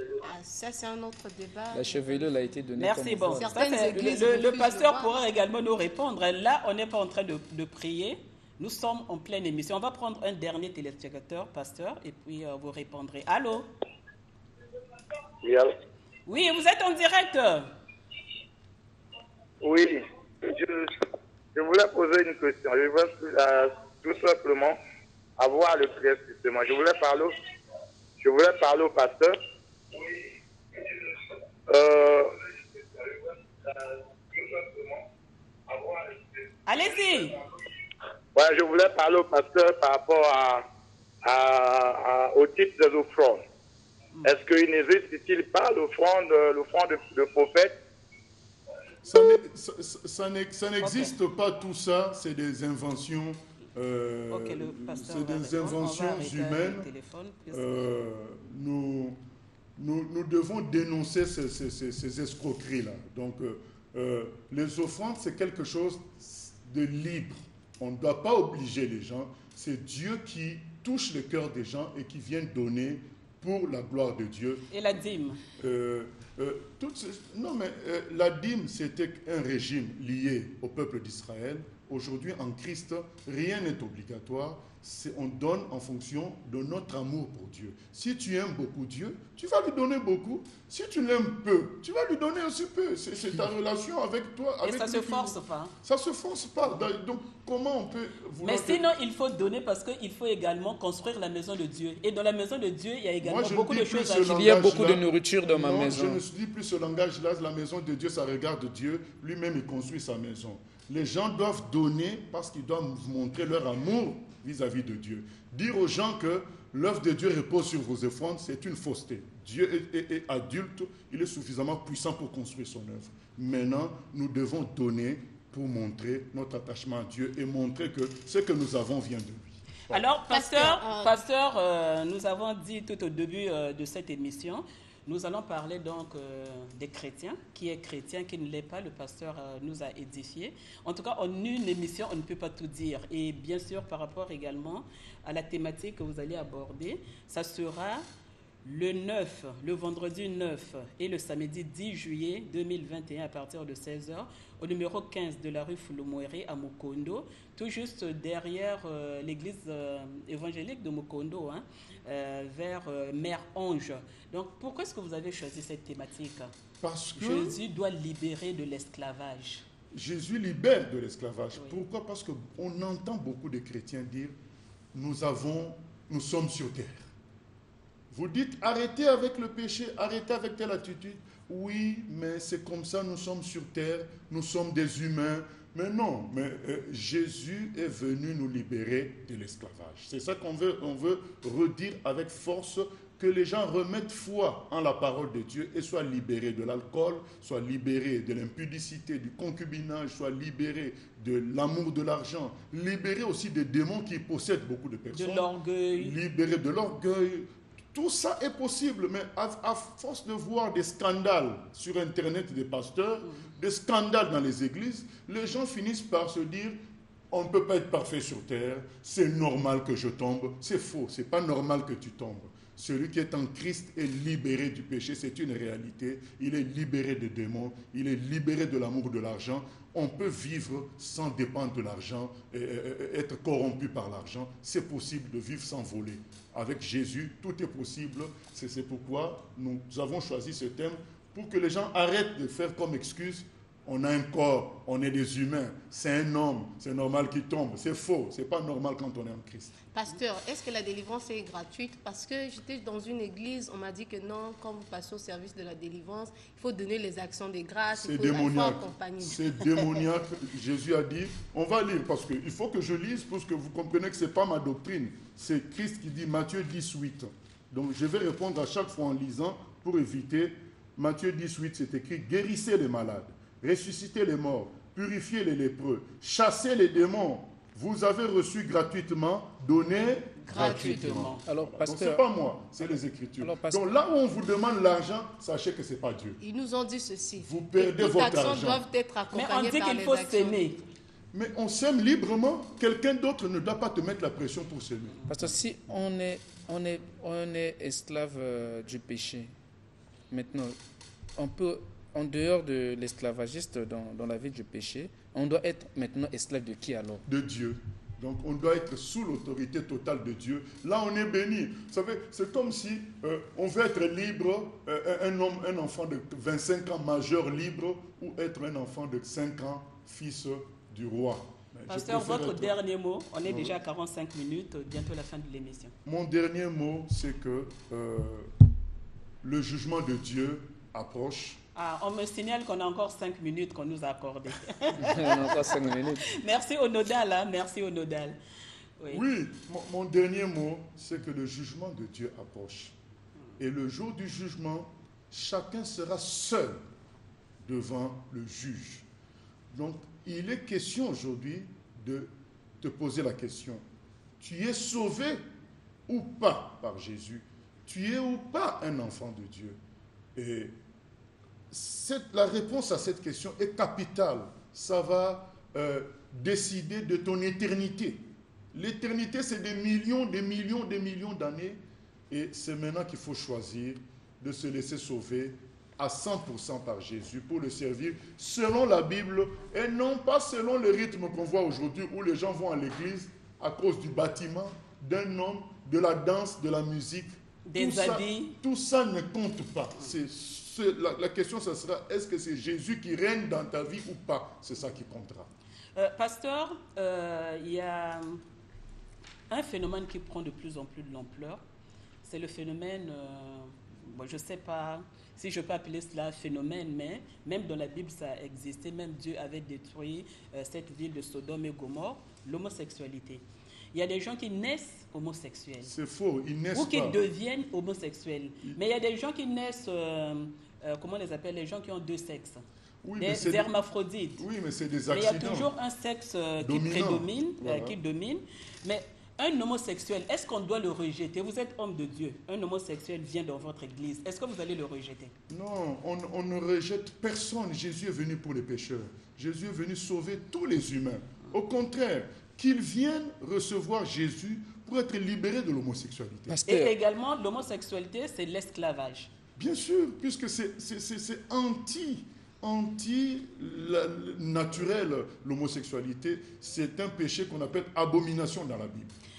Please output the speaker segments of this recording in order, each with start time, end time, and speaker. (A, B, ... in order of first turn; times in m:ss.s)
0:00.2-0:02.6 A
0:01.7-0:03.6 B
0:02.8-0:13.7 C
0:03.4-0:05.1 A
0:15.4-0:15.7 D
0:16.3-0:17.7 C
0:19.6-0:20.9 D
0:21.6-0:24.8 D
0:25.4-0:27.3 D
0:28.2-0:29.4 D
0:29.9-0:31.1 D
0:31.7-0:35.0 D
0:35.7-0:36.3 D
0:36.7-0:37.4 C
0:38.4-0:40.6 D
0:41.2-0:43.4 D
0:44.2-0:47.8 D
0:49.1-0:56.9 E
0:50.8-0:51.1 C
0:54.3-0:57.9 C
0:57.5-0:59.2 E
0:59.8-1:14.7 E
1:14.7-1:15.4 C
1:15.6-1:38.8 E
1:34.6-1:35.7 C
1:38.4-1:44.4 C
1:43.2-2:10.0 E
1:44.2-1:46.2 B
2:09.9-2:28.0 C
2:10.3-2:11.2 A
2:28.6-2:46.5 C
2:46.8-2:47.6 E
2:47.2-2:49.6 C
2:49.9-2:54.4 E
2:54.9-2:57.1 E
2:58.1-3:36.8 E
3:25.1-3:26.2 C
3:37.3-4:09.8 E
4:09.9-4:20.0 A
4:17.9-4:46.4 E
4:40.4-4:41.4 C
4:40.5-4:41.3 A
4:41.4-4:42.2 B
4:43.4-4:44.0 B
4:46.4-4:50.6 A
4:47.4-4:48.8 E
4:49.3-4:50.8 C
4:51.3-4:55.6 E
4:55.3-4:59.5 B
5:00.3-5:00.8 B
5:01.4-5:07.2 B
5:07.3-5:22.8 E
5:21.9-5:25.9 C
5:23.4-5:23.8 E
5:26.0-5:28.5 E
5:29.4-5:31.6 E
5:31.8-5:38.4 C
5:35.0-5:36.3 B
5:39.1-5:42.9 E
5:43.6-5:46.8 E
5:47.6-5:49.1 E
5:49.7-5:53.8 E
5:54.4-5:55.4 E
5:56.1-5:59.8 E
6:00.4-6:00.8 E
6:01.7-6:35.5 E
6:27.7-6:28.6 C
6:36.0-6:38.4 C
6:39.5-6:41.6 C
6:42.2-6:55.9 C
6:55.8-6:57.2 E
6:56.7-7:02.6 C
7:03.0-7:03.7 E
7:03.2-7:04.4 C
7:04.4-7:05.7 E
7:05.1-7:15.3 C
7:06.6-7:08.0 E
7:15.5-7:26.6 E
7:26.5-7:27.0 B
7:26.7-7:29.3 C
7:29.6-7:39.1 E